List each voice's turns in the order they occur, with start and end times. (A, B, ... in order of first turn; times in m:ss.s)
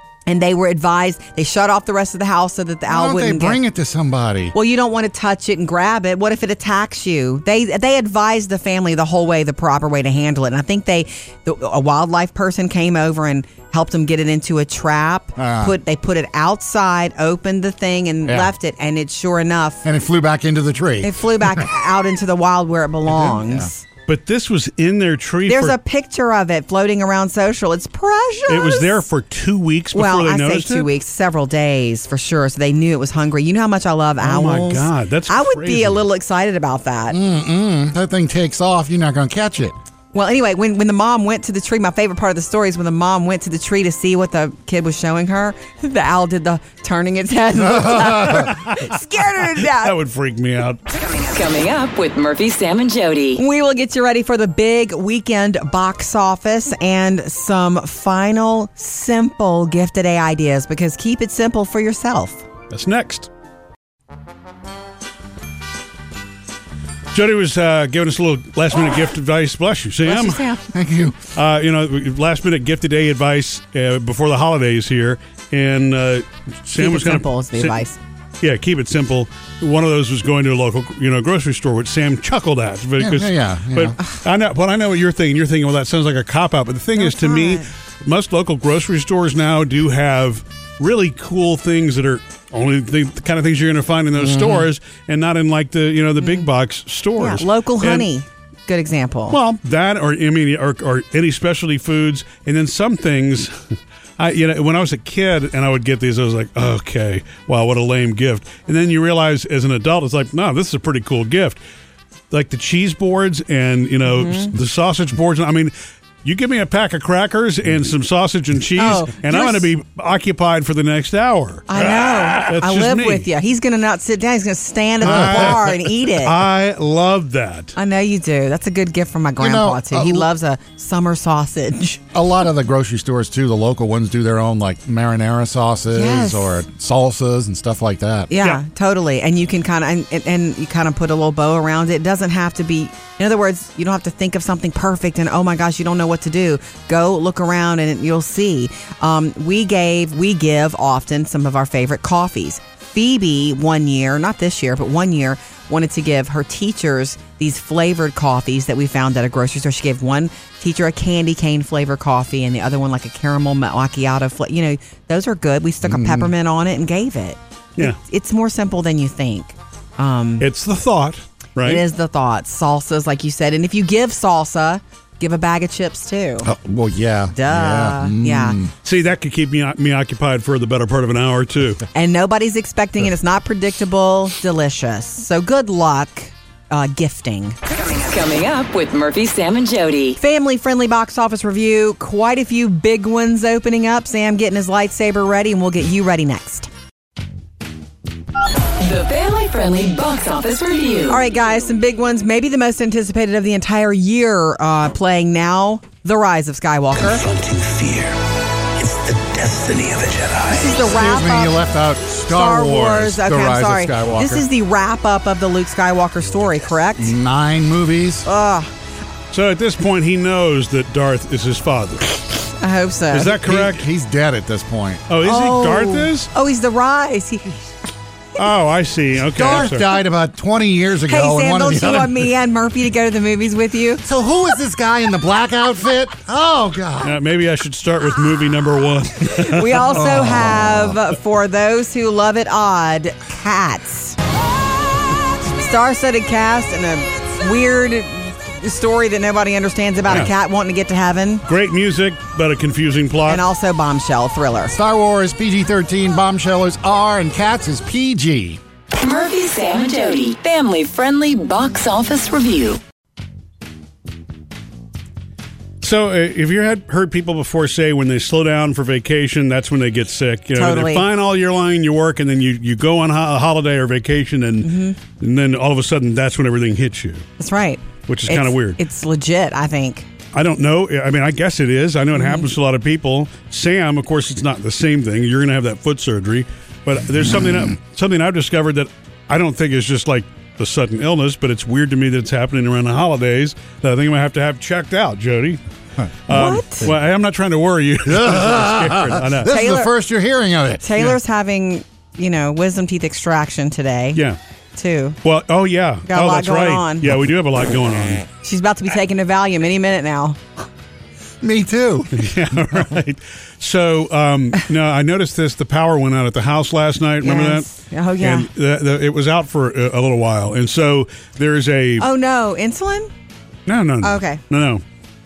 0:00.3-0:03.6 A
0:02.9-0:04.5 B
0:04.5-0:19.8 A
0:15.4-0:15.7 B
0:19.8-0:21.6 B
0:21.0-0:23.8 A
0:23.1-0:23.7 B
0:24.1-0:25.8 C
0:25.4-0:29.0 A
0:28.5-0:30.9 C
0:29.9-0:37.2 A
0:34.2-0:36.0 C
0:37.1-0:39.7 B
0:40.1-0:49.9 A
0:47.8-0:48.4 B
0:48.2-0:48.9 C
0:49.6-0:50.8 C
0:50.9-0:53.4 D
0:53.3-1:02.4 A
1:02.7-1:03.3 C
1:07.1-1:10.4 C
1:10.0-1:10.7 A
1:10.7-1:11.2 B
1:11.3-1:17.8 C
1:16.8-1:18.0 A
1:18.4-1:38.1 C
1:23.0-1:24.0 B
1:27.0-1:27.7 A
1:34.2-1:34.7 B
1:36.2-1:36.5 A
1:37.2-1:39.4 A
1:39.3-1:43.6 C
1:44.2-1:51.6 C
1:52.3-1:55.7 C
1:54.0-1:54.5 A
1:56.2-2:01.7 C
1:58.8-1:59.7 A
2:01.7-2:06.3 A
2:02.4-2:03.3 C
2:05.0-2:07.7 C
2:05.0-2:05.6 B
2:07.8-2:12.0 A
2:09.4-2:10.3 B
2:12.1-2:18.3 B
2:15.9-2:16.5 A
2:18.3-2:50.5 A
2:45.8-2:46.3 B
2:50.4-2:51.8 C
2:51.6-2:56.5 A
2:56.4-2:58.7 B
2:57.3-2:58.6 A
2:58.8-3:01.8 C
3:01.9-3:07.6 A
3:07.6-3:10.2 D
3:10.2-3:16.7 A
3:18.8-3:21.2 D
3:21.1-3:27.2 A
3:27.3-3:28.0 E
3:28.9-3:30.4 E
3:30.5-3:31.6 A
3:30.8-3:34.4 B
3:32.3-3:37.1 A
3:37.0-3:38.3 B
3:38.2-3:38.7 A
3:39.3-3:42.2 C
3:42.6-3:43.3 A
3:43.1-3:43.9 C
3:43.3-3:45.0 B
3:45.1-3:46.3 C
3:45.2-3:47.6 A
3:48.4-3:49.9 C
3:49.3-3:52.3 B
3:51.1-3:54.0 A
3:54.0-3:57.2 B
3:57.0-3:59.9 C
3:59.3-4:04.2 A
3:59.9-4:00.9 B
4:05.6-4:11.4 A
4:11.5-4:13.4 C
4:13.3-4:14.7 A
4:14.7-4:18.6 B
4:18.9-4:22.8 D
4:25.8-4:37.2 C
4:30.5-4:31.0 A
4:34.6-4:35.0 A
4:37.4-4:40.1 A
4:38.1-4:38.8 C
4:40.3-4:55.6 C
4:42.1-4:42.5 A
4:56.3-4:59.5 C
4:56.3-4:56.9 A
4:58.0-5:01.1 B
4:59.4-4:59.9 A
5:00.8-5:04.2 A
5:04.8-5:05.2 A
5:05.2-5:08.2 C
5:06.1-5:07.1 A
5:08.4-5:10.4 A
5:11.4-5:12.2 B
5:12.1-5:17.7 C
5:17.2-5:18.5 A
5:18.2-5:22.1 C
5:22.0-5:23.1 A
5:23.7-5:24.8 C
5:24.0-5:24.4 A